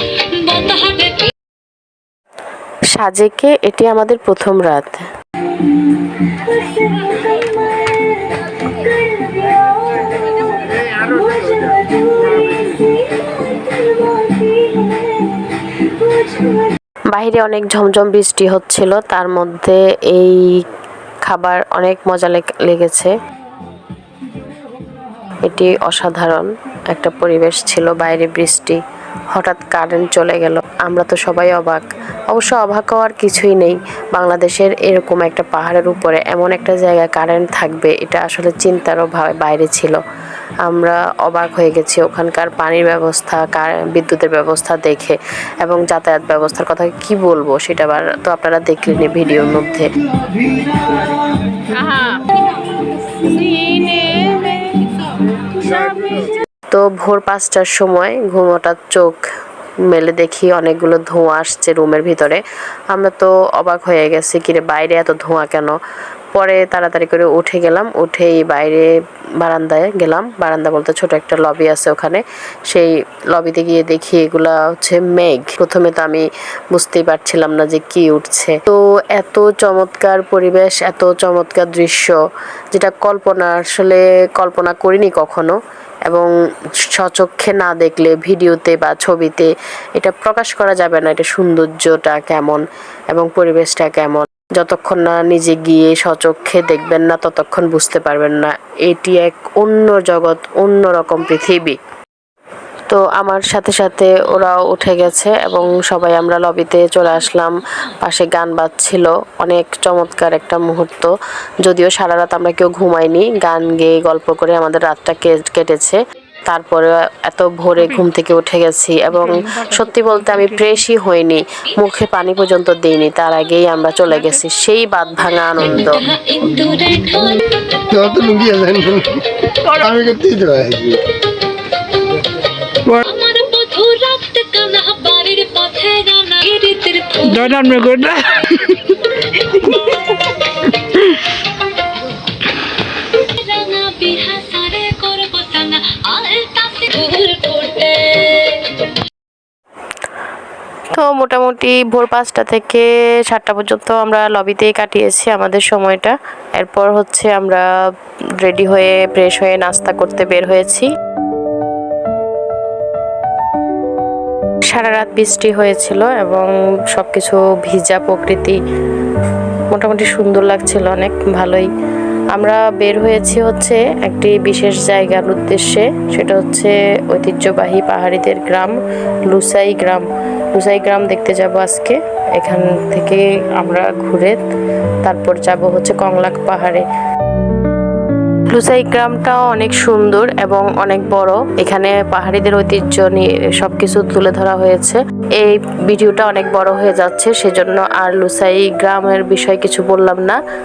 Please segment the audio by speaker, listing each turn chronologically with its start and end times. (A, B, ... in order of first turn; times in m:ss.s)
0:00.4-0:01.3 A
0:02.9-0:05.0 B
0:11.0-0:11.5 A
0:17.1-0:20.6 B
0:21.3-0:23.1 B
0:25.4-0:28.8 B
0:29.3-0:40.0 B
0:40.6-0:49.9 B
0:53.3-0:54.6 A
0:56.7-0:59.2 B
0:59.9-1:05.8 B
1:06.3-1:22.2 B
1:22.7-1:25.6 B
1:27.0-1:41.8 B
1:42.9-1:47.5 B
1:48.0-1:51.1 B
1:51.6-2:06.0 B
2:05.6-2:07.4 A
2:07.9-2:11.0 C
2:13.0-2:18.4 A
2:23.1-2:28.9 A
2:30.9-2:37.6 B
2:38.4-2:40.9 B
2:44.7-2:48.6 B
2:49.7-2:51.7 B
2:52.3-2:58.8 B
2:59.3-3:04.4 B
3:05.0-3:06.8 B
3:08.5-3:20.4 B